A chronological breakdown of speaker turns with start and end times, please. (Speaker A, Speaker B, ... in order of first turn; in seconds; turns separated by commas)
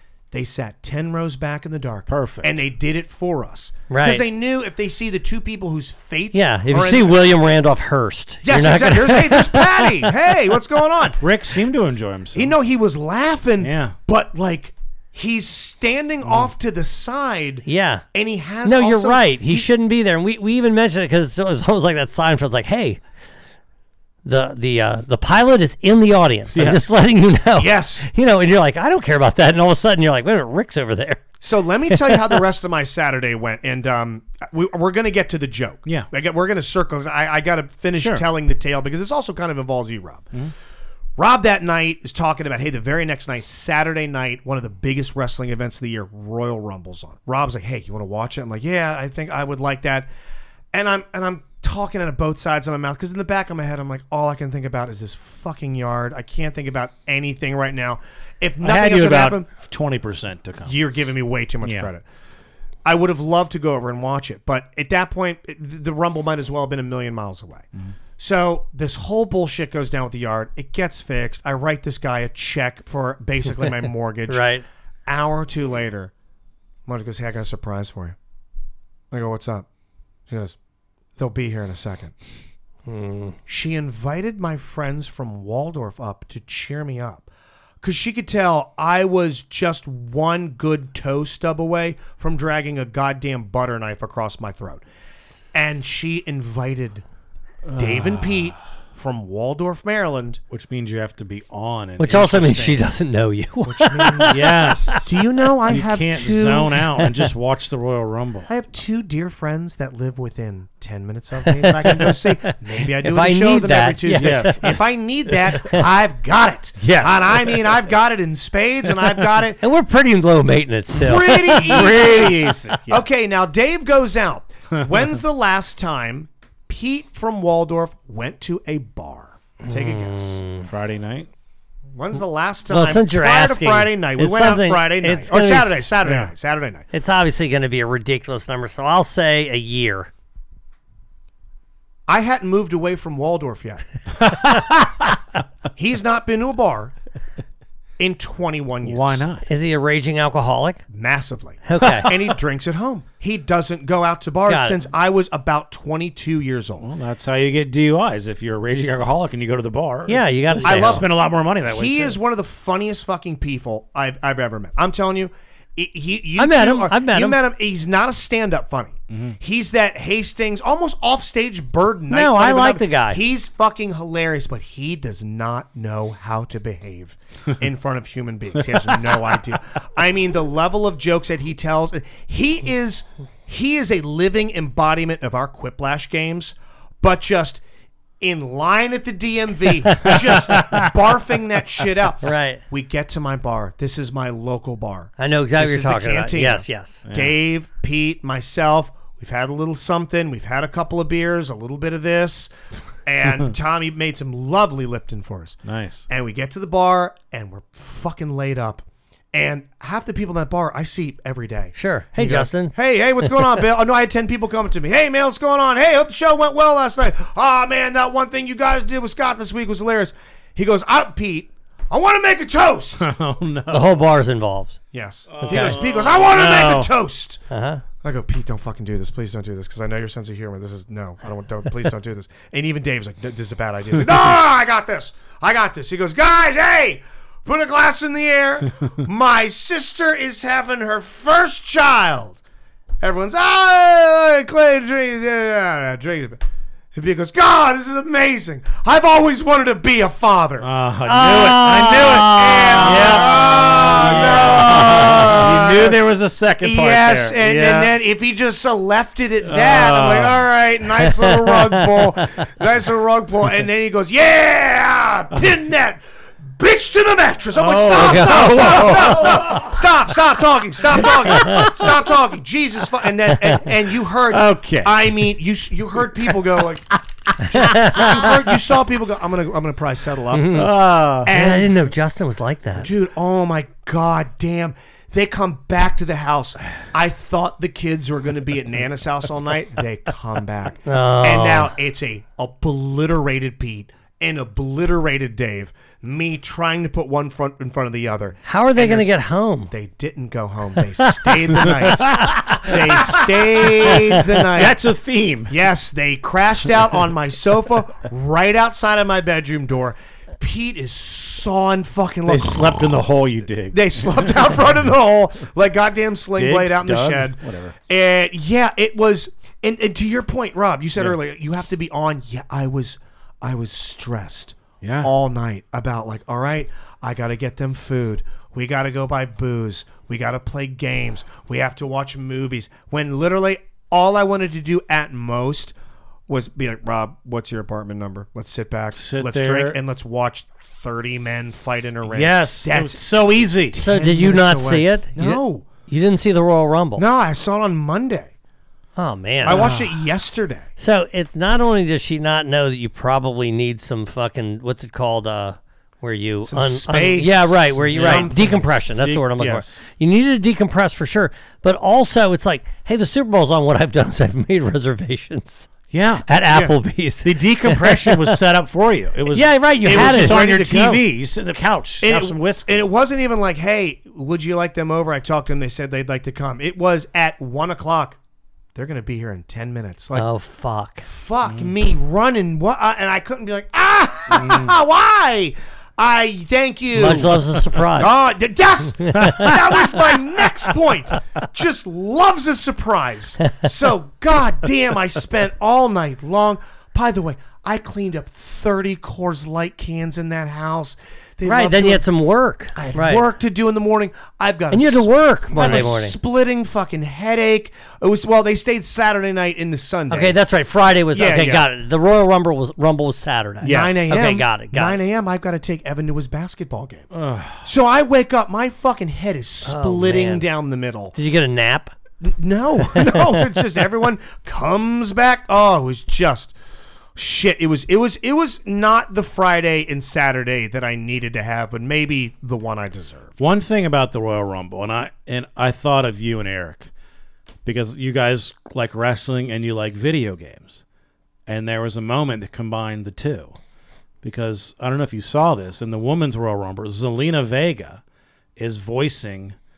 Speaker A: 0.3-7.4, Speaker B: 2.1-2.6, Speaker C: 3.9-4.2, Speaker C: 6.3-10.1, Speaker A: 8.4-11.2, Speaker B: 11.2-12.5, Speaker A: 12.3-19.7, Speaker B: 13.6-13.9, Speaker B: 16.2-16.5, Speaker C: 17.7-18.0, Speaker C: 18.6-23.0, Speaker C: 24.2-31.2, Speaker B: 26.6-26.8, Speaker A: 27.6-28.1, Speaker A: 31.4-40.3, Speaker C: 31.9-32.4, Speaker B: 38.0-38.2, Speaker A: 41.2-50.1, Speaker A: 50.7-59.5, Speaker B: 58.6-60.8, Speaker A: 60.6-62.0, Speaker B: 61.6-61.9, Speaker A: 62.9-67.7, Speaker A: 68.2-74.5, Speaker C: 74.3-74.6, Speaker A: 75.1-76.1, Speaker A: 76.9-78.2, Speaker A: 79.1-79.7, Speaker A: 80.3-80.6, Speaker A: 81.2-82.1, Speaker C: 82.9-83.4, Speaker A: 83.5-87.3, Speaker A: 87.8-94.8, Speaker A: 95.5-97.0, Speaker B: 97.7-98.6, Speaker A: 97.8-100.4, Speaker B: 100.5-102.8, Speaker C: 102.0-105.0, Speaker A: 103.7-104.5, Speaker B: 104.3-105.1, Speaker A: 105.0-106.9, Speaker B: 105.7-108.5, Speaker A: 108.5-119.6, Speaker B: 111.6-112.1, Speaker C: 112.5-114.6, Speaker B: 114.1-114.8, Speaker B: 116.8-117.8, Speaker C: 119.6-122.0, Speaker A: 120.9-130.4, Speaker B: 121.5-123.0, Speaker C: 129.7-130.7, Speaker B: 130.6-131.3, Speaker A: 131.9-136.9, Speaker C: 132.7-135.8, Speaker B: 136.0-136.3, Speaker C: 136.9-140.1, Speaker A: 142.1-143.8, Speaker B: 144.3-145.0, Speaker A: 145.8-146.9, Speaker A: 148.0-149.2, Speaker B: 148.8-149.5, Speaker C: 149.5-150.8, Speaker A: 150.9-156.9, Speaker C: 151.7-152.1, Speaker C: 154.5-154.8, Speaker B: 156.8-162.2, Speaker C: 160.1-161.0, Speaker A: 160.6-161.1, Speaker A: 161.7-187.6, Speaker C: 166.4-167.4, Speaker B: 169.1-169.4, Speaker C: 172.1-173.2, Speaker A: 188.2-202.5, Speaker B: 190.0-190.9, Speaker C: 192.2-192.6, Speaker C: 195.2-197.0, Speaker B: 197.1-197.3, Speaker A: 203.1-211.8, Speaker B: 205.7-206.0, Speaker C: 211.8-212.7, Speaker B: 212.2-212.5, Speaker A: 212.7-223.1, Speaker B: 223.0-224.0, Speaker C: 223.7-224.8, Speaker A: 224.9-227.4, Speaker B: 225.3-226.9, Speaker C: 225.4-225.8, Speaker C: 227.5-227.8, Speaker A: 228.0-242.4, Speaker A: 243.0-250.7, Speaker B: 250.6-257.9, Speaker C: 251.1-253.5, Speaker A: 251.4-256.0, Speaker C: 254.7-255.3, Speaker A: 256.6-276.9, Speaker B: 259.5-260.4, Speaker C: 261.2-261.8, Speaker B: 267.6-269.7, Speaker C: 267.9-268.9, Speaker B: 271.0-271.6, Speaker C: 271.4-271.6, Speaker B: 274.3-275.3, Speaker B: 277.3-278.3, Speaker A: 277.5-280.7, Speaker C: 277.5-278.2, Speaker C: 280.4-280.7, Speaker B: 280.5-281.3, Speaker A: 281.2-281.9, Speaker C: 281.3-282.9, Speaker A: 282.8-304.9, Speaker C: 290.9-291.7, Speaker C: 298.5-299.7, Speaker B: 301.8-305.6, Speaker A: 305.5-313.0, Speaker B: 312.3-314.3, Speaker A: 313.7-335.8, Speaker B: 316.4-317.8, Speaker B: 324.8-325.1, Speaker A: 336.3-345.7, Speaker B: 339.0-339.8, Speaker B: 342.1-343.8, Speaker C: 343.8-347.1, Speaker A: 347.0-348.3, Speaker C: 349.0-349.7, Speaker A: 349.4-350.7, Speaker B: 349.4-349.9, Speaker C: 350.8-365.7, Speaker A: 356.4-358.8, Speaker B: 357.9-358.4, Speaker B: 359.0-359.8, Speaker B: 365.9-366.3, Speaker C: 366.3-368.2, Speaker A: 366.5-366.8, Speaker B: 367.2-372.8, Speaker C: 369.3-370.4, Speaker A: 369.8-371.1, Speaker A: 372.0-378.2, Speaker A: 378.8-380.3, Speaker C: 380.1-381.1, Speaker A: 381.1-402.0, Speaker B: 381.4-381.7, Speaker B: 384.3-384.7, Speaker C: 386.9-388.1, Speaker C: 389.1-389.5, Speaker B: 389.2-389.6, Speaker C: 401.4-403.2, Speaker A: 402.8-410.4, Speaker C: 404.7-406.2, Speaker C: 410.1-415.0, Speaker A: 411.1-411.7, Speaker B: 413.6-414.1, Speaker A: 413.6-417.1, Speaker B: 417.1-417.7, Speaker A: 417.6-421.1, Speaker C: 419.6-420.5, Speaker C: 421.1-421.9, Speaker A: 422.2-426.6, Speaker C: 423.0-423.2, Speaker A: 427.2-433.4, Speaker B: 433.4-436.9, Speaker B: 437.6-440.8, Speaker B: 441.5-443.6, Speaker B: 444.2-448.0, Speaker B: 448.6-449.6